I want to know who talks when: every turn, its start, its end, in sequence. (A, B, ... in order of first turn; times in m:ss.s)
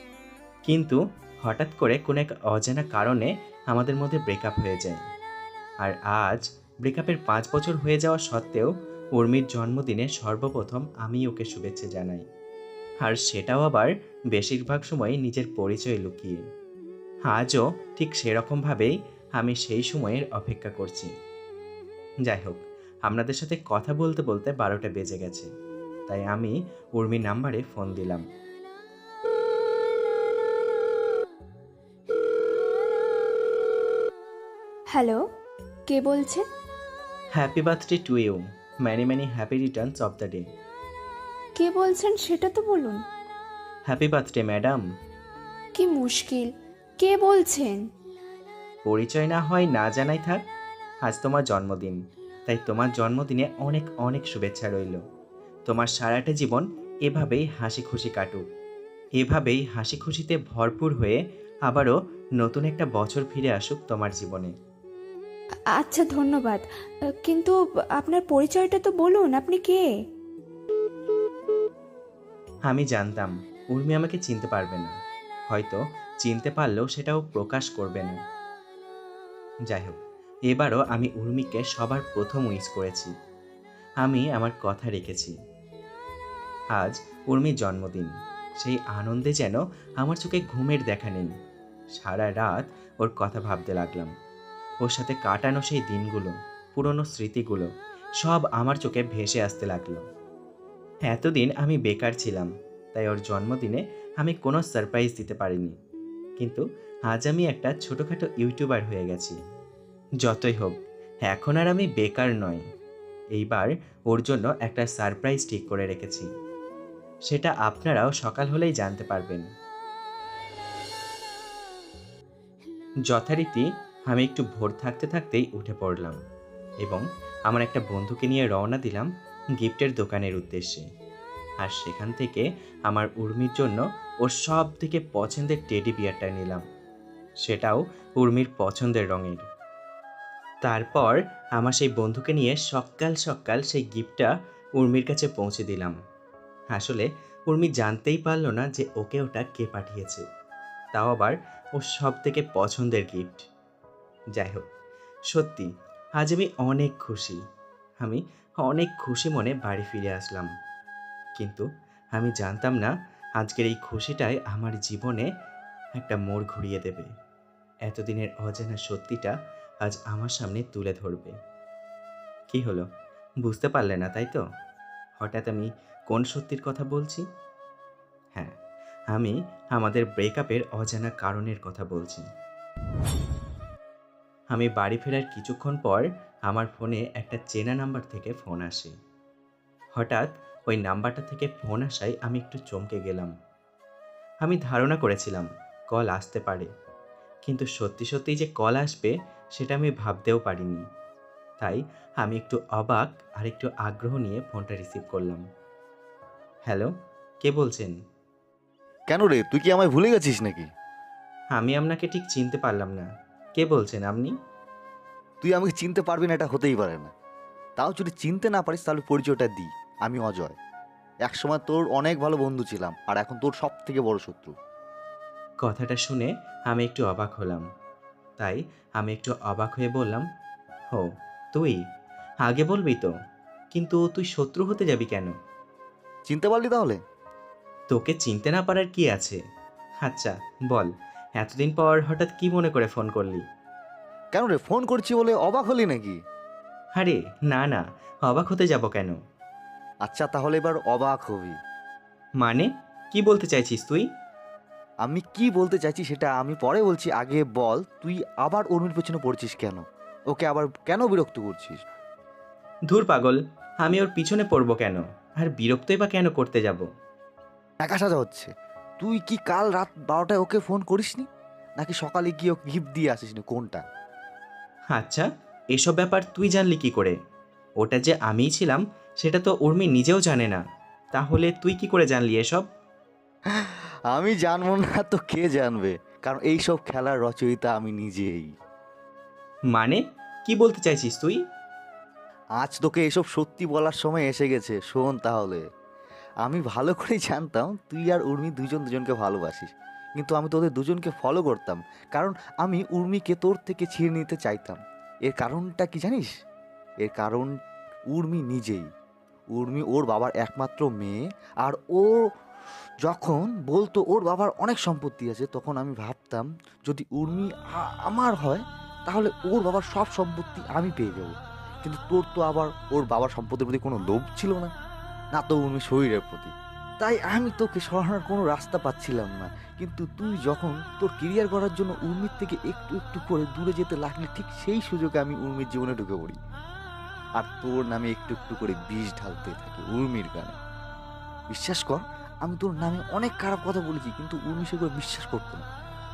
0:00.6-0:05.0 A
0:05.8-0:12.2 A
0:13.0-0:16.4 A
0:17.3-0:21.1 A
0:22.2-0:25.5 A
0:26.1-0:28.2 A
0:34.9-0:35.2 B
0:35.9-0:36.4 B
0:37.4-0:40.5 A
0:41.6-0:43.0 B
0:43.9-0:44.8 A
0:45.8-0:47.8 B
0:48.8-0:50.4 A
0:51.0-0:55.0 A
0:55.7-0:58.4 A
0:59.2-1:04.5 A
1:05.8-1:06.6 B
1:07.2-1:09.8 B
1:12.7-1:14.9 A
1:15.5-1:18.2 A
1:19.7-1:20.0 A
1:20.5-1:23.1 A
1:24.0-1:25.3 A
1:26.7-1:31.3 A
1:31.9-1:34.1 A
1:34.8-1:37.7 A
1:38.2-1:40.0 A
1:41.1-1:45.7 A
1:46.4-1:49.4 A
1:50.2-1:50.8 A
1:51.3-1:52.6 A
1:53.4-1:56.3 A
1:57.3-1:59.4 A
2:03.1-2:06.2 A
2:06.8-2:09.1 A
2:09.6-2:10.8 A
2:11.6-2:16.6 A
2:17.4-2:19.4 A
2:20.6-2:26.0 A
2:26.7-2:30.2 A
2:30.9-2:33.5 A
2:34.4-2:34.6 A
2:35.3-2:37.4 A
2:38.0-2:40.5 A
2:41.4-2:45.3 A
2:46.0-2:47.1 A
2:47.9-2:51.3 A
2:52.5-2:52.8 A
2:53.4-2:54.4 A
2:55.2-2:57.2 A
2:59.1-3:02.2 A
3:04.5-3:08.9 A
3:10.0-3:13.3 A
3:14.4-3:16.7 A
3:17.4-3:20.8 A
3:21.6-3:25.4 A
3:27.4-3:27.9 A
3:29.1-3:30.6 C
3:31.5-3:34.3 A
3:35.4-3:37.1 C
3:37.8-3:40.6 C
3:41.2-3:44.5 C
3:45.6-3:47.6 A
3:48.4-3:50.2 A
3:50.9-3:51.8 A
3:52.4-3:53.1 A
3:53.7-3:55.3 A
3:56.3-3:57.0 C
3:57.9-3:59.4 A
4:00.0-4:03.4 A
4:04.4-4:06.2 C
4:07.0-4:09.2 A
4:10.0-4:11.5 C
4:12.4-4:14.0 A
4:15.0-4:21.8 C
4:22.9-4:26.8 A
4:27.8-4:31.2 C
4:31.8-4:33.8 C
4:34.9-4:37.2 A
4:37.8-4:40.6 A
4:41.1-4:42.6 A
4:44.1-4:48.5 C
4:49.7-4:51.4 A
4:52.6-4:55.6 C
4:56.4-5:06.3 C
5:07.0-5:07.5 C
5:08.1-5:08.9 C
5:09.5-5:12.2 C
5:13.0-5:24.7 C
5:25.3-5:36.4 C
5:37.4-5:40.6 C
5:41.5-5:45.6 C